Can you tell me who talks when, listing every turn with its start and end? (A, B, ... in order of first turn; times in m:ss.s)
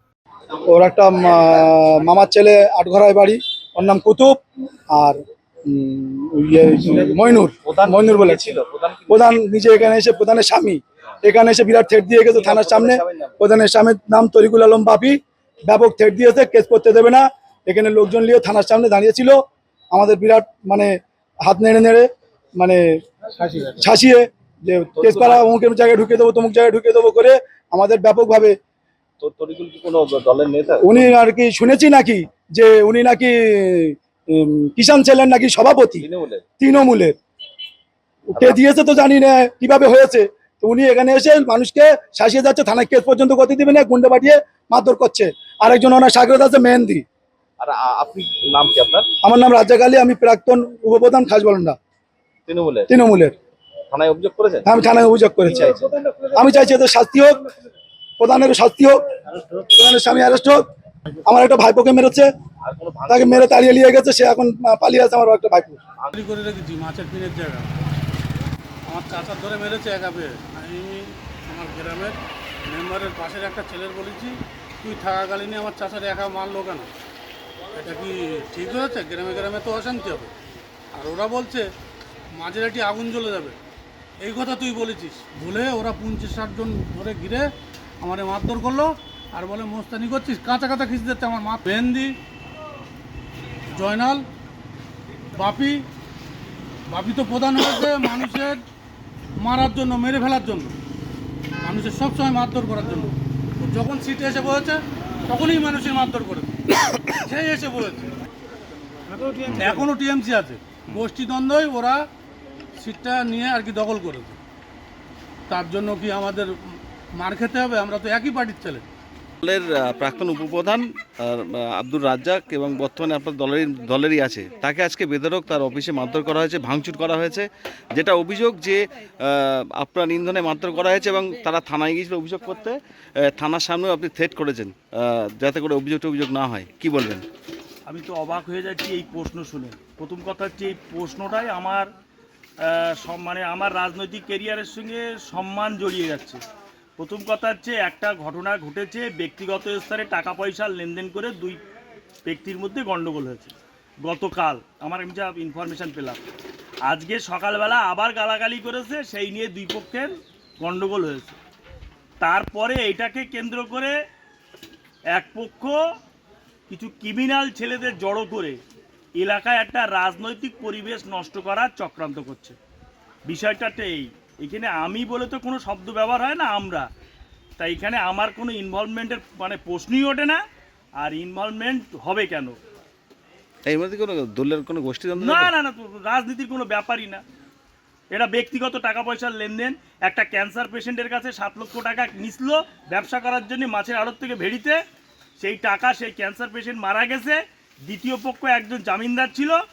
0:00.7-0:04.4 A
0:04.9-0:08.6 A
0:07.6-0:09.2 B
0:09.1-0:19.4 A
0:12.3-0:13.3 B
0:19.9-0:20.9 A
0:21.4-0:22.1 A
0:23.5-0:28.6 A
0:25.0-0:25.4 B
0:29.2-0:31.1 B
0:30.8-0:36.0 A
0:36.0-0:36.4 B
0:36.6-0:37.2 A
0:38.4-0:47.0 A
0:47.6-0:49.1 B
0:49.2-0:51.8 A
0:52.5-0:52.9 B
0:52.9-0:53.3 A
0:53.9-0:54.7 B
0:54.7-0:57.5 A
0:55.6-0:56.1 B
0:58.2-0:59.0 A
0:59.6-1:00.6 A
1:01.3-1:02.3 A
1:02.6-1:03.6 B
1:03.1-1:05.8 A
1:06.1-1:07.7 C
1:08.9-1:16.9 C
1:17.8-1:20.3 C
1:20.9-1:21.7 C
1:22.3-1:23.6 C
1:24.2-1:27.5 C
1:28.0-1:32.1 C
1:33.7-1:34.2 C
1:35.4-1:35.8 C
1:36.9-1:38.6 C
1:39.4-1:40.8 C
1:41.6-1:48.1 C
1:49.5-1:52.0 C
1:52.8-1:54.4 C
1:55.5-1:58.8 C
1:59.4-2:17.2 D
2:17.9-2:21.9 E
2:22.6-2:26.4 E
2:27.0-2:31.6 E
2:32.3-2:33.5 E
2:34.0-2:36.2 E
2:36.9-2:41.4 E
2:42.2-2:44.0 E
2:45.2-2:45.8 E
2:46.7-2:48.6 E
2:49.2-2:52.6 E
2:53.3-2:56.9 E
2:57.6-3:00.4 E
3:01.0-3:02.6 E
3:03.7-3:05.5 D
3:05.2-3:07.2 E
3:08.1-3:14.8 E
3:15.4-3:19.6 E